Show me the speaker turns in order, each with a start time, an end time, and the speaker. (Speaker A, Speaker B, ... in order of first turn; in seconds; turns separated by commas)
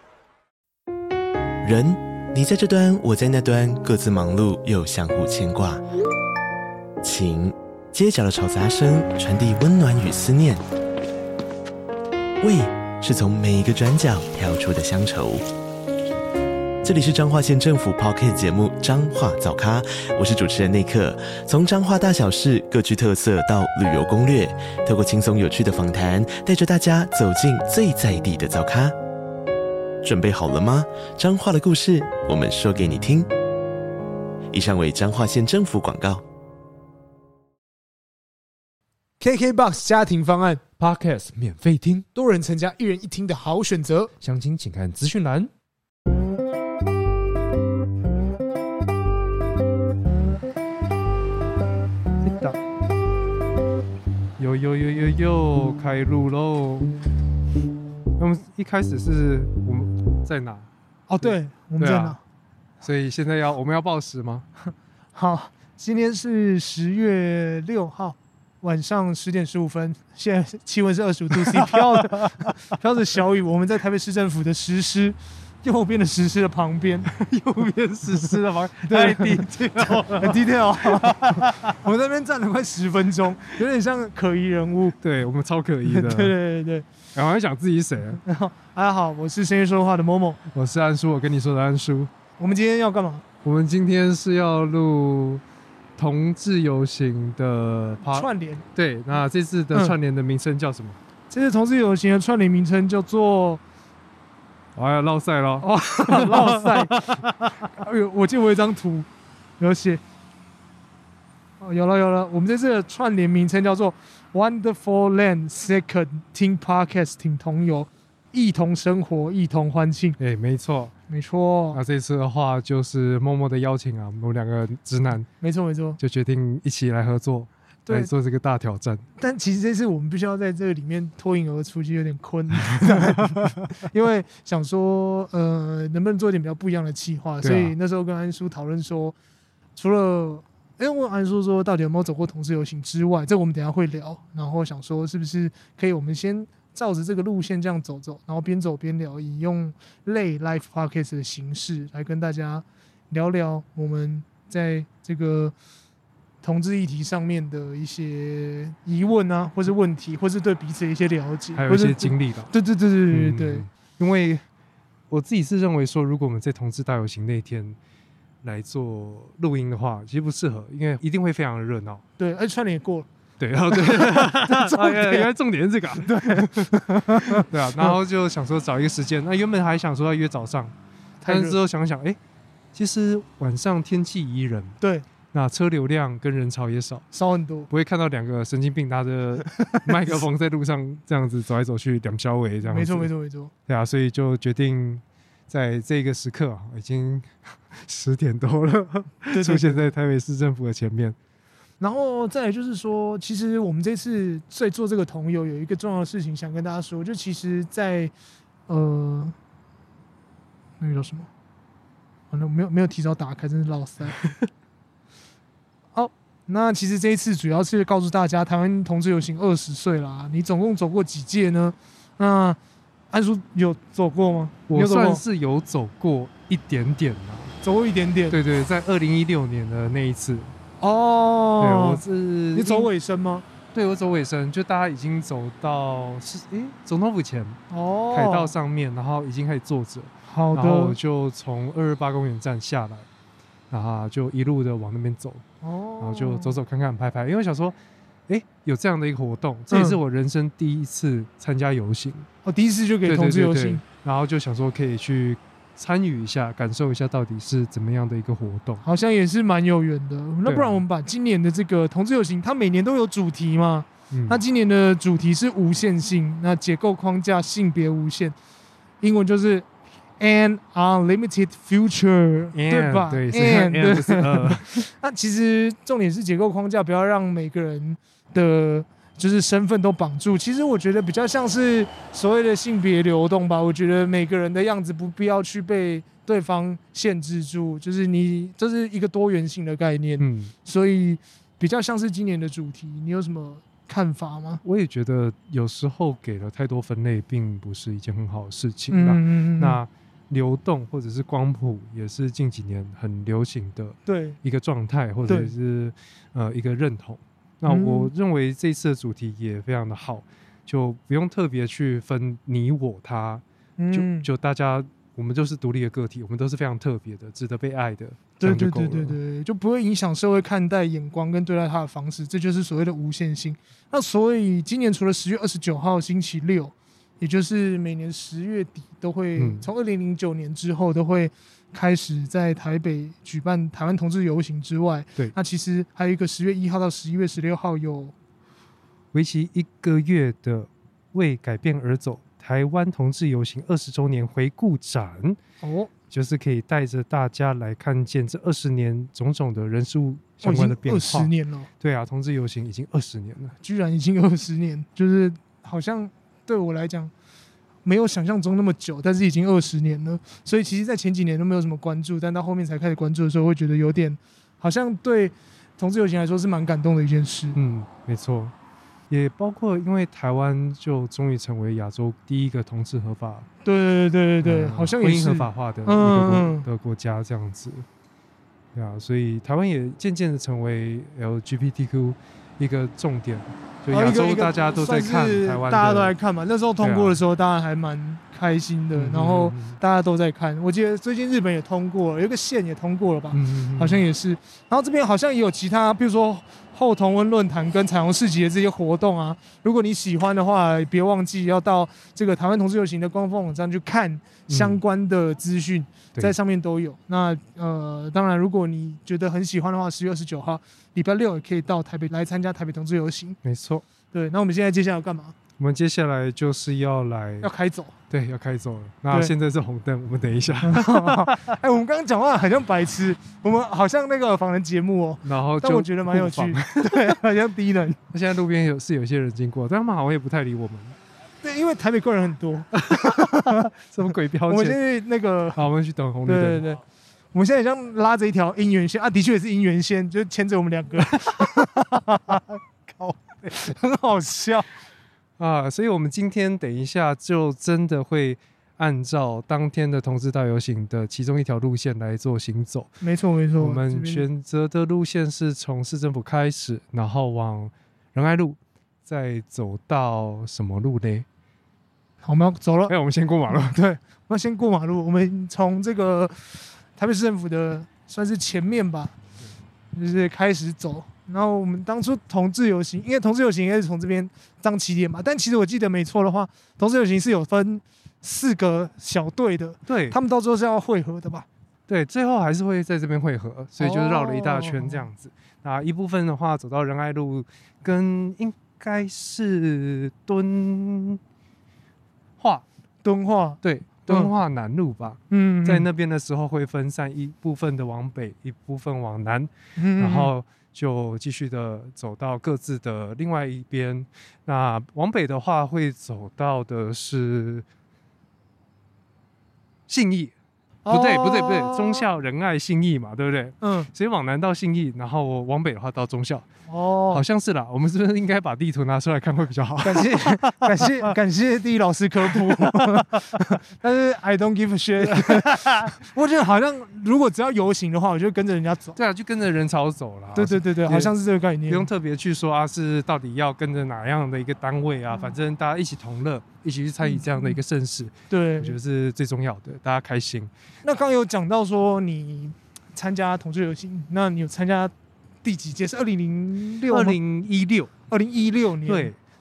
Speaker A: 1.6-5.8, Speaker A: 7.0-10.6, Speaker A: 12.4-15.4, Speaker A: 16.8-28.9, Speaker A: 30.0-33.3, Speaker A: 34.5-36.2, Speaker B: 39.2-40.6, Speaker C: 40.8-42.0, Speaker B: 42.1-44.1, Speaker C: 44.2-45.5, Speaker C: 52.2-52.6, Speaker C: 54.4-56.9, Speaker C: 58.2-60.7, Speaker B: 61.1-62.2, Speaker C: 61.2-62.2, Speaker C: 62.8-64.5, Speaker B: 65.1-77.1, Speaker C: 71.3-72.5, Speaker C: 77.1-81.7, Speaker B: 78.9-84.9, Speaker C: 85.0-86.3, Speaker B: 85.8-86.8, Speaker C: 87.1-88.2, Speaker B: 88.2-90.4, Speaker C: 90.5-92.1, Speaker B: 92.4-93.2, Speaker C: 93.4-95.4, Speaker C: 96.0-101.0, Speaker B: 98.0-98.6, Speaker B: 101.3-103.6, Speaker C: 104.8-107.7, Speaker B: 105.6-107.0, Speaker B: 107.7-109.1, Speaker B: 109.6-110.0, Speaker B: 111.6-120.2, Speaker C: 120.2-120.9, Speaker B: 121.1-121.8, Speaker C: 121.7-125.3, Speaker B: 125.4-126.0, Speaker C: 126.0-129.1, Speaker B: 129.2-139.1, Speaker C: 133.0-133.4, Speaker C: 137.4-137.7, Speaker B: 139.8-155.5, Speaker B: 156.4-163.7, Speaker C: 161.5-162.5, Speaker C: 163.1-164.4, Speaker C: 165.1-167.8, Speaker C: 168.4-172.0, Speaker B: 172.2-173.1, Speaker C: 173.4-180.7, Speaker B: 173.7-175.3, Speaker B: 176.0-177.9, Speaker B: 181.2-181.6, Speaker C: 181.2-182.2, Speaker C: 182.7-184.8, Speaker B: 184.8-185.1, Speaker C: 185.3-187.1, Speaker B: 187.1-187.7, Speaker C: 187.7-193.1, Speaker B: 189.6-189.9, Speaker B: 192.6-193.5, Speaker C: 193.7-201.2, Speaker B: 199.3-199.9, Speaker B: 201.8-208.1, Speaker B: 208.7-209.3, Speaker B: 210.8-211.3, Speaker B: 212.3-214.2, Speaker B: 215.9-222.6, Speaker B: 223.1-225.2, Speaker C: 224.7-227.6, Speaker B: 227.6-228.4, Speaker C: 228.3-230.5, Speaker B: 230.8-232.0, Speaker C: 231.6-232.9, Speaker B: 232.5-233.4, Speaker C: 233.7-237.6, Speaker B: 237.7-238.5, Speaker C: 238.1-243.1, Speaker B: 240.3-241.0, Speaker C: 243.7-245.4, Speaker B: 245.6-246.6, Speaker C: 246.0-247.8, Speaker C: 248.3-252.3, Speaker B: 249.7-250.0, Speaker B: 252.4-253.8, Speaker C: 253.0-258.8, Speaker B: 258.8-268.3, Speaker C: 260.4-260.8, Speaker C: 264.1-264.4, Speaker B: 269.0-269.6, Speaker B: 270.2-294.6, Speaker C: 272.5-274.9, Speaker C: 290.2-290.5, Speaker C: 294.6-319.2, Speaker B: 298.9-299.8, Speaker B: 304.1-304.4, Speaker B: 305.3-305.5, Speaker B: 307.7-308.1, Speaker B: 313.8-314.3, Speaker B: 318.4-338.1, Speaker C: 329.4-329.7, Speaker C: 339.1-345.4, Speaker B: 345.6-345.9, Speaker C: 346.1-353.6, Speaker B: 350.4-351.7, Speaker B: 353.6-357.1, Speaker B: 357.8-367.6, Speaker C: 367.5-368.5, Speaker C: 369.1-373.5, Speaker B: 373.6-376.7, Speaker C: 374.4-377.9, Speaker C: 378.7-386.1, Speaker B: 383.9-413.4, Speaker C: 386.8-387.2, Speaker C: 388.9-389.8, Speaker C: 393.3-394.0, Speaker C: 404.5-404.8, Speaker C: 413.4-413.8, Speaker B: 414.1-415.3, Speaker C: 415.6-417.5, Speaker B: 417.4-417.9, Speaker C: 418.1-421.4, Speaker B: 420.6-428.0, Speaker C: 425.2-427.2, Speaker C: 428.1-430.9, Speaker B: 431.4-433.7, Speaker C: 432.8-434.8, Speaker B: 434.5-435.6, Speaker C: 435.6-436.6, Speaker B: 436.2-442.4, Speaker C: 441.0-441.6, Speaker C: 442.3-443.5, Speaker B: 443.5-444.7, Speaker C: 445.4-453.0, Speaker B: 453.0-454.2, Speaker C: 453.6-461.2, Speaker B: 462.2-462.9, Speaker C: 462.9-463.8, Speaker B: 463.5-469.1, Speaker B: 469.9-481.4, Speaker C: 479.9-480.2, Speaker C: 481.9-491.2, Speaker B: 483.8-485.0, Speaker C: 492.4-492.6, Speaker B: 493.0-494.3, Speaker C: 493.6-507.6, Speaker B: 495.3-495.9, Speaker B: 499.8-500.3, Speaker C: 509.9-510.3, Speaker B: 510.8-512.1, Speaker C: 510.9-516.5, Speaker B: 513.6-513.9, Speaker B: 516.7-517.2, Speaker C: 517.1-521.1, Speaker B: 519.8-529.0, Speaker C: 522.3-523.5, Speaker C: 525.1-525.9, Speaker C: 528.9-531.1, Speaker B: 530.3-531.9, Speaker C: 531.7-540.5, Speaker B: 537.0-537.6, Speaker B: 538.3-538.8, Speaker B: 540.8-544.9, Speaker B: 545.4-547.2, Speaker C: 546.9-547.9, Speaker B: 548.1-549.1, Speaker C: 548.8-549.1